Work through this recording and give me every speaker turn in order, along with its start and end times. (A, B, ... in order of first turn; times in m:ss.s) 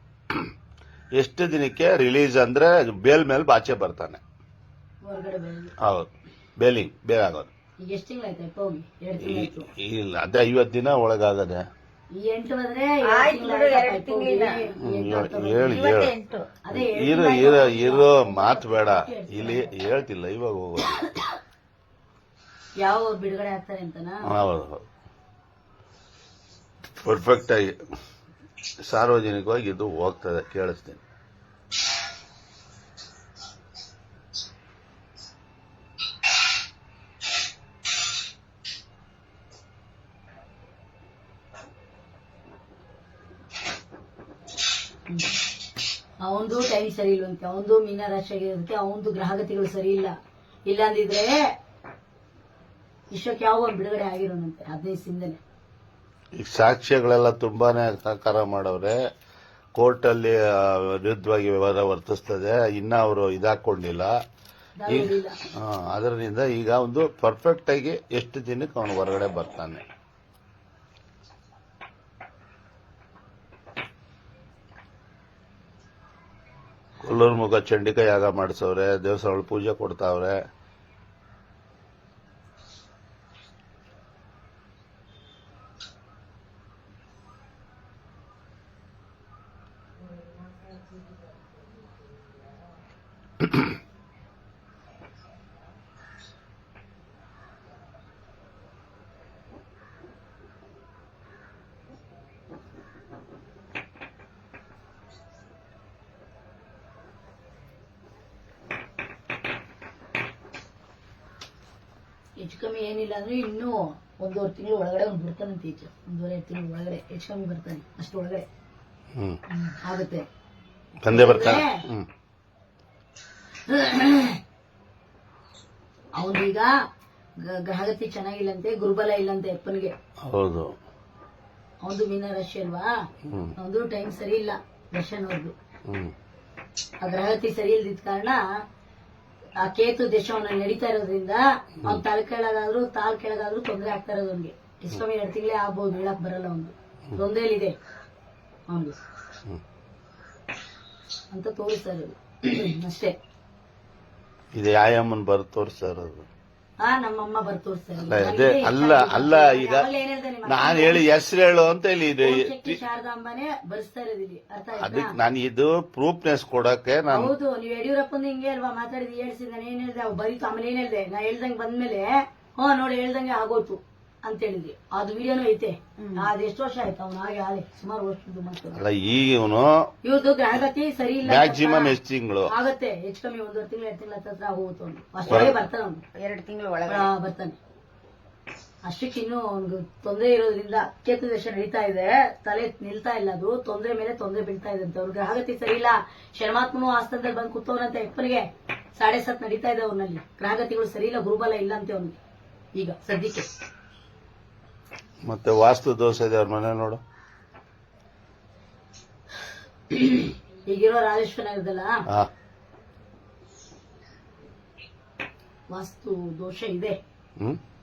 0:01.2-0:04.2 A
0:05.0-0:05.7 B
0:05.8-0:07.5 A
0:07.8-0:09.7 B
0:09.2-0:11.7 A
0:12.2-0:15.9 B
0:13.0-0:14.6 C
0:14.8-0:16.1 A
0:15.6-0:16.5 C
0:16.6-0:19.7 B
0:16.7-0:21.0 A
0:22.8-0:24.2 B
0:24.3-0:24.8 A
0:27.0-0:27.8 A
0:28.8-0:31.0 A
0:46.2-0:50.1 B
0:50.7-0:51.3 B
0:53.1-0:55.4 B
0:56.4-0:59.0 A
0:59.8-1:04.2 A
1:04.8-1:05.4 B
1:04.9-1:09.8 A
1:17.0-1:20.4 A
1:52.4-1:58.4 B
1:59.7-2:00.3 B
2:01.0-2:02.1 A
2:01.1-2:01.8 B
2:03.7-2:04.4 B
2:06.2-2:06.7 B
2:07.4-2:09.9 B
2:10.3-2:10.7 A
2:11.8-2:12.9 B
2:13.3-2:13.5 A
2:13.6-2:15.5 B
2:15.9-2:16.1 A
2:17.0-2:18.4 B
2:19.6-2:27.8 B
2:28.7-2:29.0 B
2:31.3-2:33.2 B
2:34.5-2:36.3 A
2:36.8-2:41.1 B
2:38.0-2:39.9 A
2:40.5-2:42.8 A
2:42.2-2:45.1 B
2:44.8-2:47.3 A
2:47.1-2:58.8 B
2:56.0-2:56.3 C
2:58.7-2:59.9 A
3:00.0-3:06.0 B
3:01.2-3:02.5 A
3:05.3-3:05.6 A
3:06.2-3:07.1 C
3:06.9-3:07.6 B
3:08.8-3:22.2 B
3:22.8-3:23.5 B
3:25.3-3:27.0 A
3:29.9-3:32.0 B
3:35.7-3:37.0 B